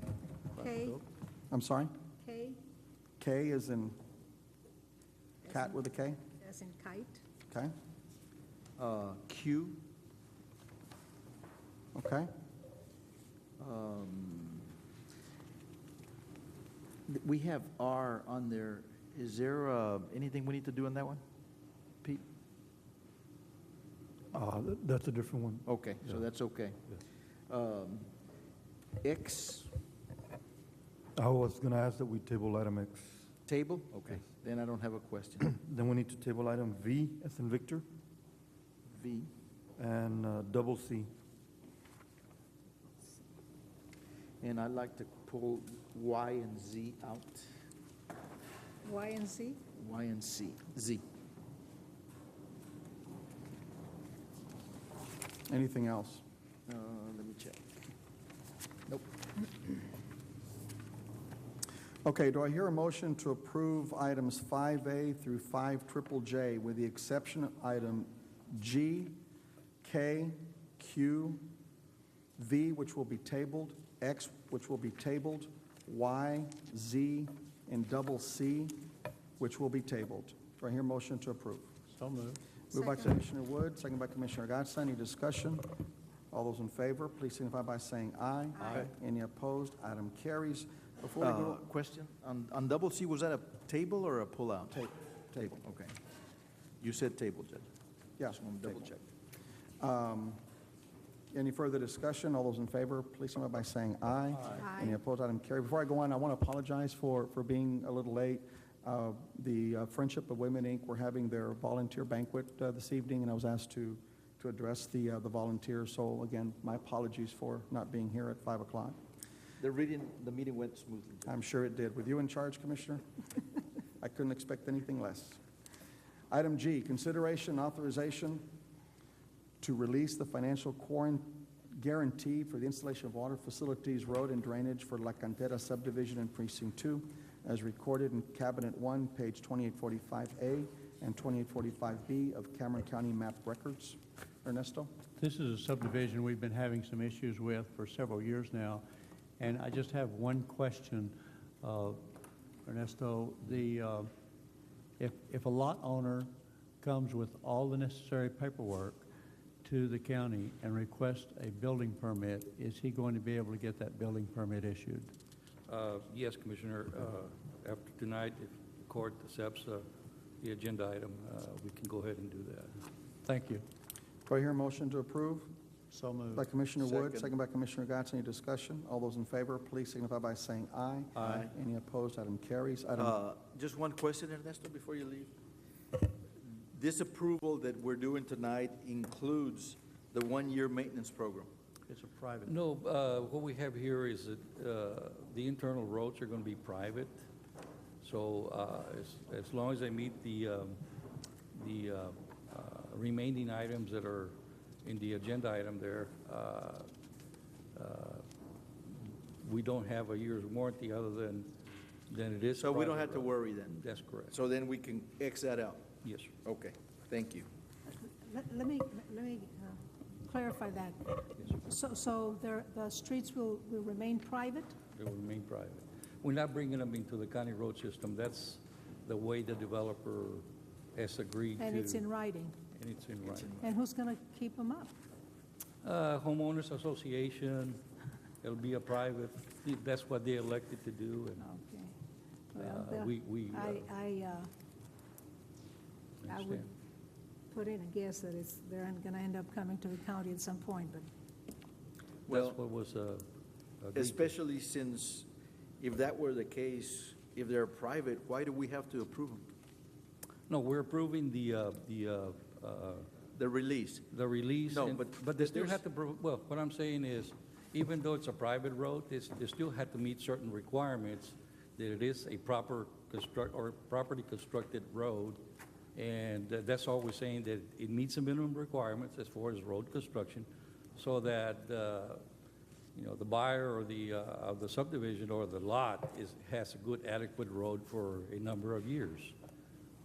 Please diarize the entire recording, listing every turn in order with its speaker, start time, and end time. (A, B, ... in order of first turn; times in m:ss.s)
0:00.5-0:01.0 A
0:01.5-0:01.9 B
0:02.2-0:02.6 A
0:03.2-0:04.0 B
0:05.4-0:07.2 A
0:05.5-0:06.2 B
0:08.8-0:09.8 C
0:11.9-0:12.3 B
0:13.6-0:14.7 C
0:17.1-0:21.2 C
0:24.3-0:25.7 D
0:25.6-0:27.0 C
0:27.5-0:28.1 C
0:29.0-0:29.7 C
0:31.2-0:33.2 D
0:33.5-0:35.5 C
0:35.5-0:37.8 D
0:38.9-0:39.3 C
0:39.8-0:41.1 D
0:44.4-0:47.5 C
0:48.8-0:49.6 A
0:49.8-0:51.0 C
0:55.5-0:56.2 B
0:56.7-0:57.6 C
0:58.9-0:59.7 C
1:02.0-1:09.2 B
1:09.8-1:11.4 B
1:12.4-1:18.7 B
1:19.4-1:21.7 B
1:21.9-1:22.4 E
1:22.7-1:23.1 A
1:22.7-1:25.7 B
1:26.3-1:31.6 B
1:28.5-1:28.9 A
1:31.2-1:36.0 C
1:34.7-1:35.6 B
1:36.8-1:37.7 C
1:38.2-1:38.9 B
1:38.3-1:39.0 C
1:39.8-1:40.4 B
1:41.3-1:59.0 B
1:44.6-1:45.0 A
1:59.6-2:01.3 C
2:01.2-2:03.0 B
2:04.0-2:05.4 B
2:06.3-2:08.5 B
2:09.6-2:24.9 B
2:25.2-2:28.8 E
2:29.4-2:32.1 E
2:32.6-2:34.1 E
2:35.0-2:39.1 E
2:39.6-2:45.1 E
2:45.7-2:49.8 F
2:50.4-2:52.8 F
2:53.2-2:53.6 E
2:54.2-2:55.5 B
2:55.9-2:56.5 E
2:56.3-3:03.2 B
2:56.8-2:57.3 C
3:01.2-3:01.5 C
3:03.0-3:05.3 C
3:06.6-3:11.5 C
3:11.9-3:12.5 E
3:12.4-3:17.2 F
3:18.0-3:20.8 F
3:21.5-3:26.9 F
3:27.7-3:28.2 F
3:29.4-3:31.5 F
3:32.1-3:34.3 F
3:32.6-3:33.8 C
3:34.3-3:35.9 C
3:36.0-3:36.3 F
3:36.4-3:37.5 C
3:37.9-3:44.8 A
3:44.9-3:52.0 F
3:51.6-3:52.6 A
3:52.7-3:53.5 F
3:53.2-3:53.7 C
3:53.6-3:54.9 A
3:55.8-3:57.8 F
3:58.4-4:01.4 F
4:01.4-4:01.9 A
4:02.5-4:04.5 A
4:02.6-4:03.8 F
4:06.2-4:06.6 F
4:06.2-4:06.7 A
4:07.5-4:11.1 A
4:12.3-4:12.6 C
4:12.3-4:13.2 F
4:13.8-4:14.3 F
4:13.9-4:15.3 C
4:15.8-4:19.5 C
4:20.5-4:23.1 F
4:23.3-4:24.0 C
4:24.1-4:35.4 F
4:24.7-4:25.8 C
4:35.9-4:42.2 F
4:42.9-4:49.3 F